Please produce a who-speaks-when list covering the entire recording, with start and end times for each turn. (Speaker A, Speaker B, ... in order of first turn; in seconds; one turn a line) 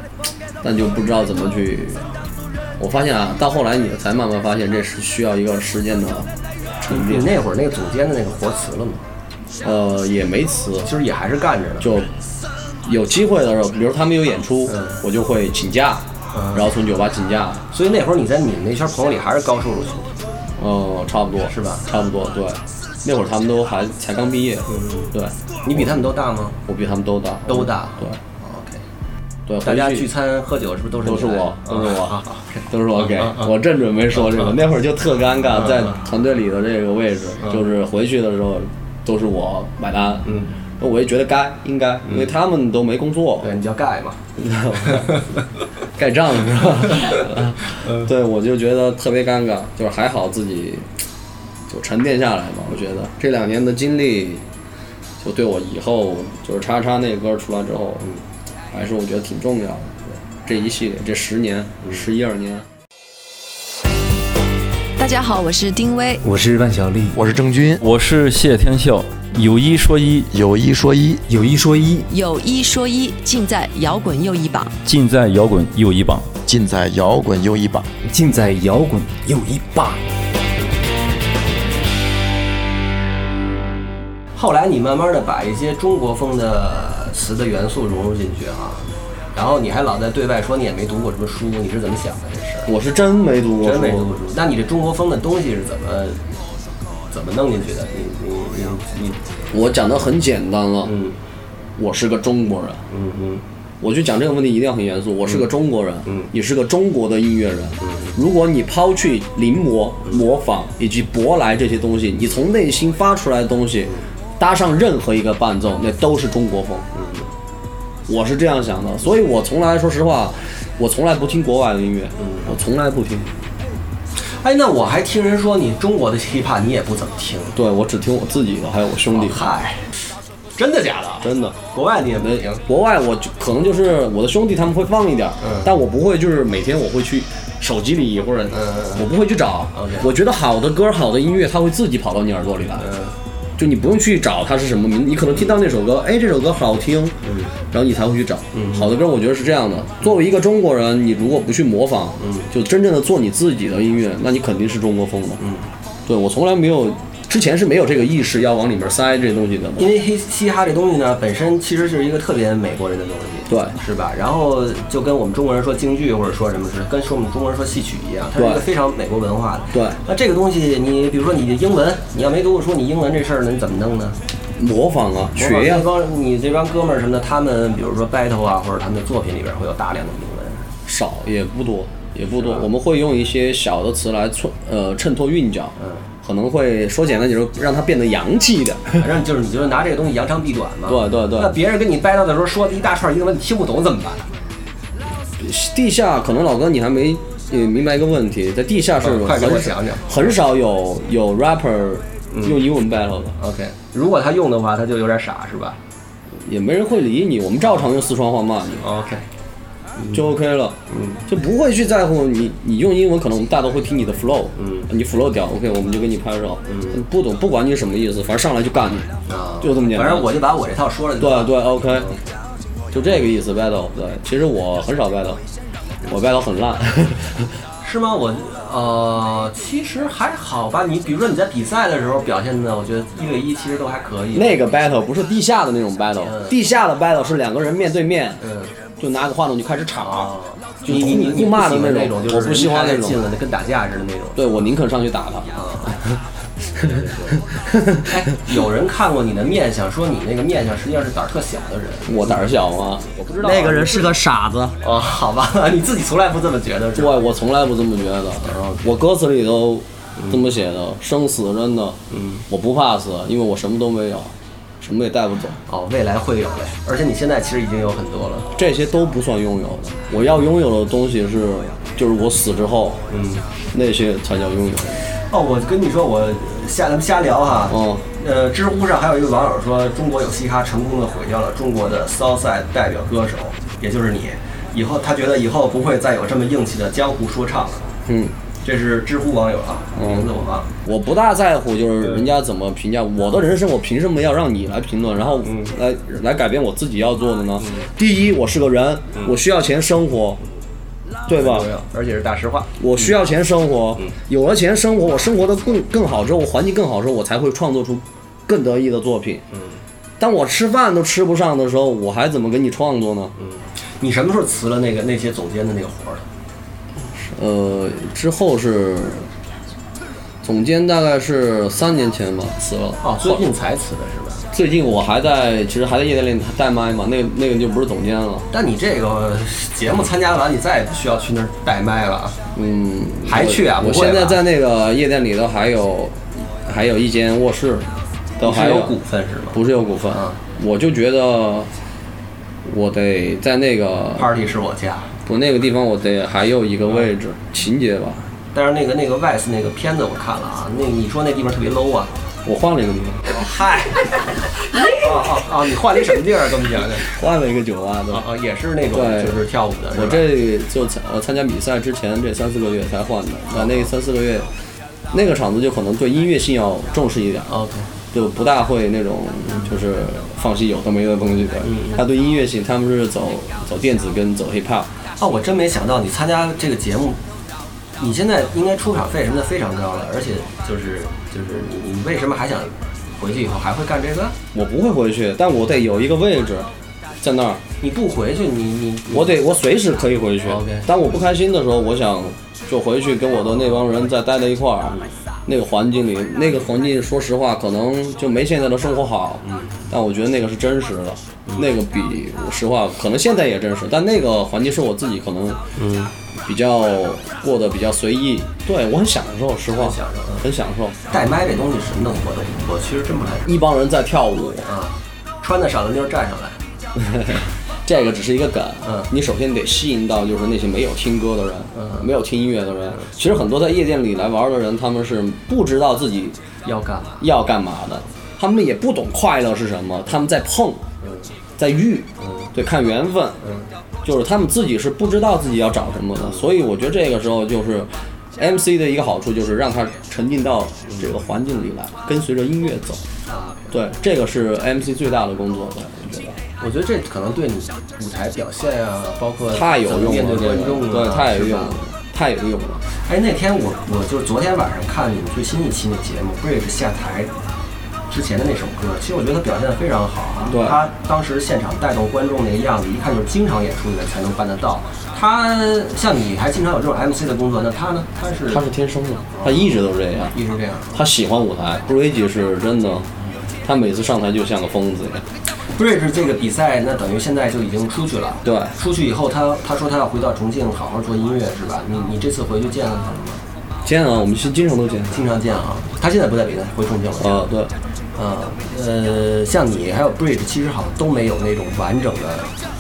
Speaker A: 0.6-2.0
Speaker A: 2.8-7.3
Speaker B: 6.9-9.0
Speaker A: 9.6-10.9
Speaker B: 10.8-11.9
Speaker A: 11.8-12.1
Speaker A: 12.8-17.6
Speaker B: 14.7-15.0
Speaker B: 16.3-16.7
Speaker B: 17.7-20.1
Speaker A: 20.6-26.0
Speaker B: 21.5-21.9
Speaker B: 24.7-25.1
Speaker B: 25.6-26.6
Speaker A: 26.7-28.2
Speaker B: 27.5-28.8
Speaker A: 29.5-30.1
Speaker B: 29.6-33.5
Speaker A: 31.0-32.2
Speaker A: 32.7-43.5
Speaker B: 34.1-34.6
Speaker B: 35.5-35.9
Speaker B: 40.2-40.5
Speaker B: 43.4-44.2
Speaker A: 44.4-45.2
Speaker B: 44.8-45.3
Speaker A: 46.0-50.9
Speaker A: 51.7-54.4
Speaker A: 55.2-58.1
Speaker A: 58.7-62.7
Speaker C: 65.0-66.2
Speaker D: 66.2-67.2
Speaker E: 67.1-67.8
Speaker F: 67.8-70.3
Speaker E: 70.3-71.2
Speaker D: 71.3-72.1
Speaker C: 72.1-74.7
Speaker F: 74.8-76.3
Speaker E: 76.4-77.9
Speaker D: 78.0-80.0
Speaker B: 84.3-92.7
Speaker A: 92.7-94.1
Speaker B: 93.6-96.2
Speaker B: 97.1-99.2
Speaker A: 99.5-101.0
Speaker B: 100.8-101.2
Speaker A: 101.8-102.8
Speaker B: 102.9-103.4
Speaker A: 103.8-116.9
Speaker B: 107.8-108.1
Speaker B: 116.9-117.3
Speaker A: 118.1-123.3
Speaker B: 122.2-122.5
Speaker B: 124.2-127.6
Speaker A: 127.5-129.4
Speaker B: 129.1-130.0
Speaker B: 130.6-132.6
Speaker A: 131.2-131.6
Speaker A: 132.2-142.9
Speaker B: 135.4-135.7
Speaker B: 138.5-139.1
Speaker B: 139.7-140.1
Speaker B: 142.8-143.1
Speaker A: 143.6-155.4
Speaker B: 147.2-147.5
Speaker B: 148.5-148.9
Speaker B: 152.2-152.5
Speaker B: 155.4-155.7
Speaker A: 156.1-159.9
Speaker B: 159.8-174.2
Speaker A: 163.5-163.8
Speaker A: 168.3-168.7
Speaker A: 169.7-170.0
Speaker A: 174.6-175.9
Speaker B: 175.3-180.7
Speaker A: 180.8-189.1
Speaker B: 182.4-182.6
Speaker B: 185.8-186.0
Speaker B: 189.0-194.3
Speaker A: 190.9-191.6
Speaker A: 195.4-203.4
Speaker B: 199.0-200.4
Speaker B: 202.3-202.6
Speaker B: 203.4-205.8
Speaker A: 206.4-208.9
Speaker B: 208.8-209.2
Speaker B: 210.0-210.2
Speaker A: 210.1-220.3
Speaker B: 210.9-211.2
Speaker B: 214.6-214.9
Speaker B: 216.7-217.0
Speaker B: 219.3-222.2
Speaker A: 221.2-222.1
Speaker A: 222.9-225.4
Speaker A: 226.1-227.5
Speaker B: 227.8-234.6
Speaker A: 234.3-238.4
Speaker B: 236.2-236.6
Speaker B: 238.4-238.7
Speaker A: 239.0-243.2
Speaker B: 240.0-244.5
Speaker A: 244.3-246.2
Speaker B: 245.5-246.0
Speaker B: 246.7-252.4
Speaker A: 247.7-248.0
Speaker A: 252.1-254.8
Speaker B: 253.0-254.2
Speaker B: 254.8-257.1
Speaker A: 256.9-265.6
Speaker B: 258.4-258.8
Speaker B: 262.1-262.4
Speaker B: 265.7-268.5
Speaker A: 268.5-273.1
Speaker B: 273.1-273.4
Speaker A: 273.7-275.0
Speaker B: 275.1-287.9
Speaker A: 277.7-278.1
Speaker A: 288.1-288.3
Speaker B: 288.6-290.7
Speaker A: 289.9-290.3
Speaker A: 290.8-300.4
Speaker B: 295.4-295.7
Speaker B: 297.6-297.9
Speaker A: 301.3-301.7
Speaker B: 301.3-303.1
Speaker A: 302.8-309.4
Speaker B: 309.5-309.8
Speaker A: 310.2-313.3
Speaker B: 313.4-316.2
Speaker A: 317.1-319.3
Speaker A: 320.4-323.4
Speaker B: 323.0-324.5
Speaker A: 324.5-328.5
Speaker B: 328.5-332.4
Speaker A: 332.5-338.9
Speaker B: 333.2-334.4
Speaker B: 338.4-339.6
Speaker A: 339.5-341.7
Speaker B: 340.1-340.4
Speaker A: 342.6-344.3
Speaker B: 344.1-345.1
Speaker A: 345.2-348.3
Speaker B: 348.5-352.1
Speaker A: 352.4-353.4
Speaker B: 353.2-357.1
Speaker A: 356.8-358.3
Speaker B: 358.1-360.3
Speaker A: 358.9-359.4
Speaker A: 359.9-364.5
Speaker B: 363.5-363.9
Speaker A: 365.1-367.6
Speaker B: 367.5-367.9
Speaker A: 368.1-374.9
Speaker B: 371.6-372.0
Speaker B: 375.2-377.2
Speaker B: 378.0-384.4
Speaker A: 384.5-386.7
Speaker A: 387.2-387.6
Speaker B: 387.8-389.3
Speaker A: 389.1-405.6
Speaker B: 390.4-390.9
Speaker B: 393.3-393.8
Speaker B: 399.4-399.9
Speaker B: 405.8-406.1
Speaker A: 406.4-411.1
Speaker B: 409.8-410.4
Speaker B: 411.1-413.5
Speaker A: 413.4-414.7
Speaker B: 414.6-416.6
Speaker A: 417.0-426.4
Speaker B: 418.8-419.1
Speaker B: 421.7-422.1
Speaker B: 426.6-427.3
Speaker A: 427.2-430.9
Speaker B: 431.0-431.3
Speaker A: 431.6-433.4
Speaker B: 432.2-432.5
Speaker B: 433.4-433.7
Speaker A: 434.0-443.0
Speaker B: 436.2-436.5
Speaker B: 443.3-443.7
Speaker A: 443.7-446.4
Speaker B: 446.6-451.8
Speaker A: 449.5-452.8
Speaker B: 452.9-457.3
Speaker B: 458.1-468.6
Speaker A: 460.4-460.8
Speaker A: 468.5-470.4
Speaker B: 469.4-469.7
Speaker B: 470.3-471.0
Speaker A: 470.9-473.1
Speaker A: 473.6-475.2
Speaker B: 475.8-483.4
Speaker A: 478.4-478.8
Speaker A: 483.8-485.2
Speaker B: 485.1-487.5
Speaker A: 487.2-487.7
Speaker B: 488.1-492.5